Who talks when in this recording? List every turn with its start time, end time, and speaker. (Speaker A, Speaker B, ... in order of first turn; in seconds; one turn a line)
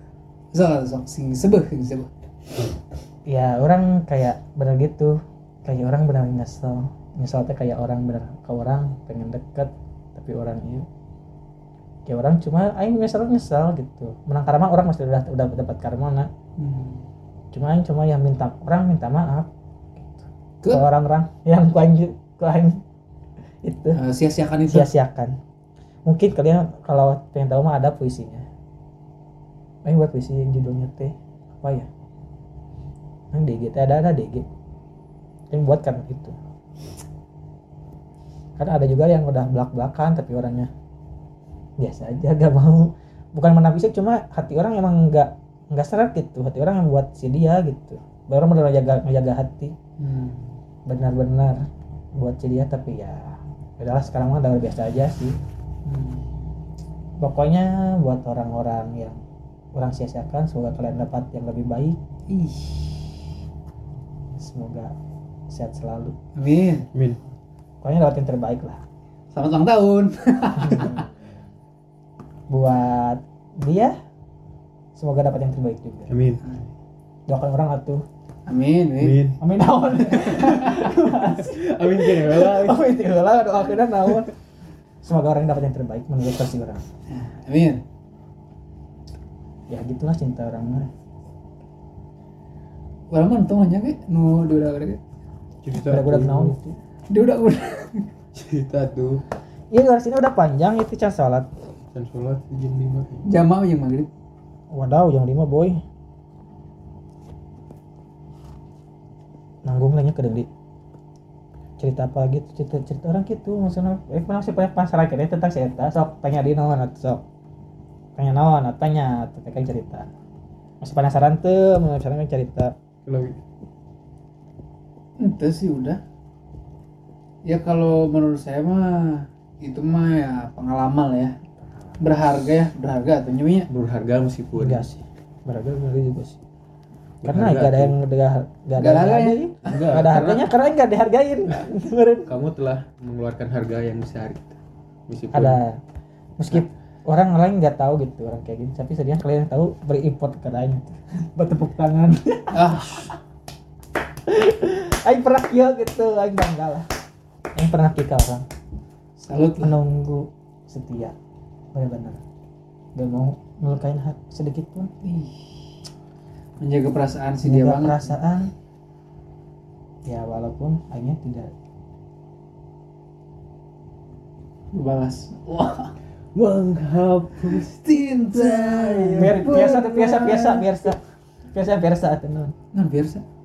Speaker A: 0.5-2.1
Speaker B: 3.3-10.9
Speaker B: 12.1-16.3
Speaker A: 16.6-17.1
Speaker B: 17.5-22.8
Speaker B: 23.6-24.0
Speaker A: 23.9-24.9
Speaker B: 24.7-25.4
Speaker B: 26.1-28.5
Speaker B: 29.9-31.9
Speaker B: 33.3-34.5
Speaker B: 35.5-36.4
Speaker B: 38.6-40.7
Speaker B: 41.8-49.7
Speaker A: 50.0-50.5
Speaker B: 50.9-51.6
Speaker B: 52.1-55.4
Speaker A: 55.9-56.3
Speaker B: 57.2-59.2
Speaker B: 59.7-62.0
Speaker A: 62.3-63.2
Speaker B: 64.4-64.9
Speaker B: 65.5-66.2
Speaker A: 66.4-66.9
Speaker C: 66.9-67.2
Speaker B: 67.8-68.8
Speaker A: 69.3-71.1
Speaker B: 70.6-71.1
Speaker B: 72.5-73.9
Speaker B: 75.0-76.1
Speaker C: 76.1-76.4
Speaker B: 77.3-78.0
Speaker A: 78.5-79.3
Speaker C: 79.0-79.4
Speaker B: 79.4-84.3
Speaker A: 80.2-80.9
Speaker C: 81.2-82.8
Speaker B: 85.0-86.8
Speaker A: 87.1-87.8
Speaker B: 89.7-90.9
Speaker A: 93.1-95.0
Speaker C: 95.6-96.6
Speaker B: 95.8-96.8
Speaker A: 97.1-98.1
Speaker C: 98.3-99.2
Speaker B: 99.7-101.5
Speaker C: 101.9-103.3
Speaker A: 103.2-104.1
Speaker B: 104.7-105.8
Speaker B: 109.7-110.5
Speaker B: 111.8-117.2
Speaker B: 118.2-120.1
Speaker B: 120.8-122.7
Speaker C: 123.1-123.4
Speaker A: 125.2-126.0
Speaker A: 127.4-131.3
Speaker A: 132.0-133.7
Speaker C: 133.7-134.9
Speaker B: 134.6-136.4
Speaker C: 137.2-138.0
Speaker B: 137.2-142.3
Speaker A: 138.8-140.0
Speaker C: 139.7-140.5
Speaker C: 142.3-145.6
Speaker B: 145.3-145.8
Speaker B: 146.4-153.1
Speaker A: 152.5-153.1
Speaker B: 154.3-156.9
Speaker B: 157.6-158.4
Speaker A: 159.2-159.7
Speaker B: 159.6-161.2
Speaker B: 161.7-162.2
Speaker B: 163.0-164.9
Speaker A: 165.0-165.7
Speaker A: 166.6-168.2
Speaker B: 167.4-168.5
Speaker B: 170.1-171.5
Speaker A: 174.7-175.9
Speaker C: 176.3-179.5
Speaker A: 177.4-180.8
Speaker B: 179.2-181.0
Speaker B: 181.5-182.6
Speaker A: 182.7-183.2